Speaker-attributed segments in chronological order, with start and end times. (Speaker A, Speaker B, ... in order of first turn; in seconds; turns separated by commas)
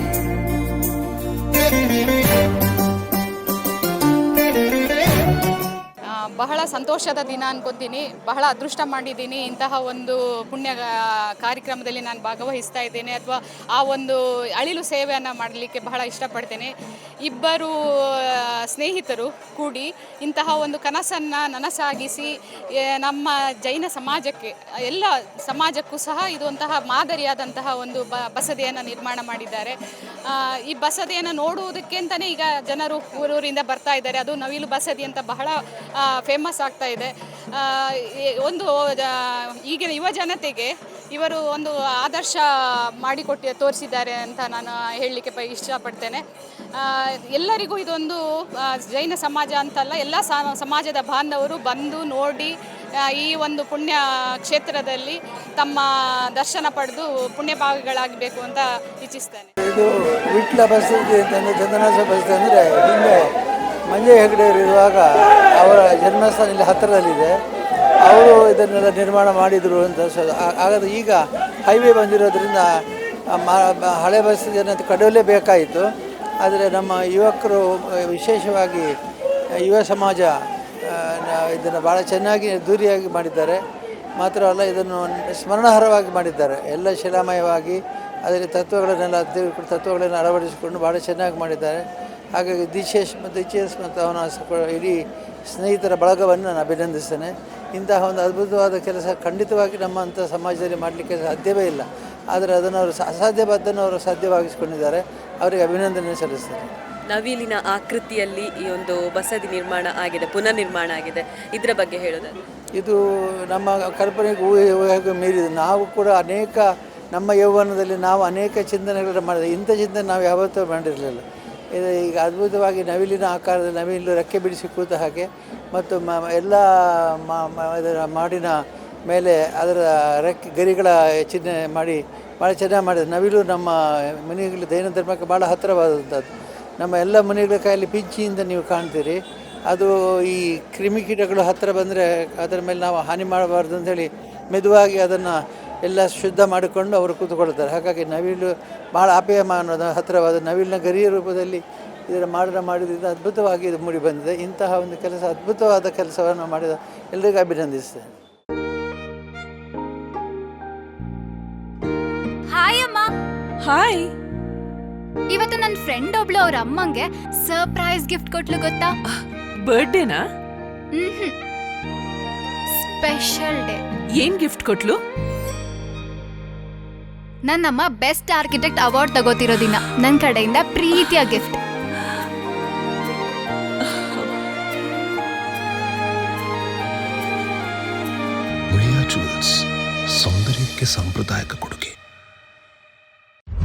Speaker A: 6.4-16.7, Speaker A: 17.2-42.4, Speaker A: 43.0-46.2, Speaker A: 46.7-52.5, Speaker A: 53.2-59.5, Speaker B: 59.6-63.2, Speaker B: 63.9-67.4, Speaker B: 68.0-75.9, Speaker B: 76.4-78.9, Speaker B: 79.6-80.3, Speaker B: 80.8-83.6, Speaker B: 84.2-91.8, Speaker B: 92.3-106.7, Speaker C: 107.1-112.4, Speaker B: 113.5-136.2, Speaker B: 136.8-158.1, Speaker D: 162.5-163.1, Speaker E: 163.6-164.1, Speaker D: 165.3-168.9, Speaker E: 169.2-170.2, Speaker D: 170.9-171.3, Speaker D: 172.7-173.8, Speaker E: 174.1-175.0, Speaker D: 177.4-181.5, Speaker F: 188.7-191.9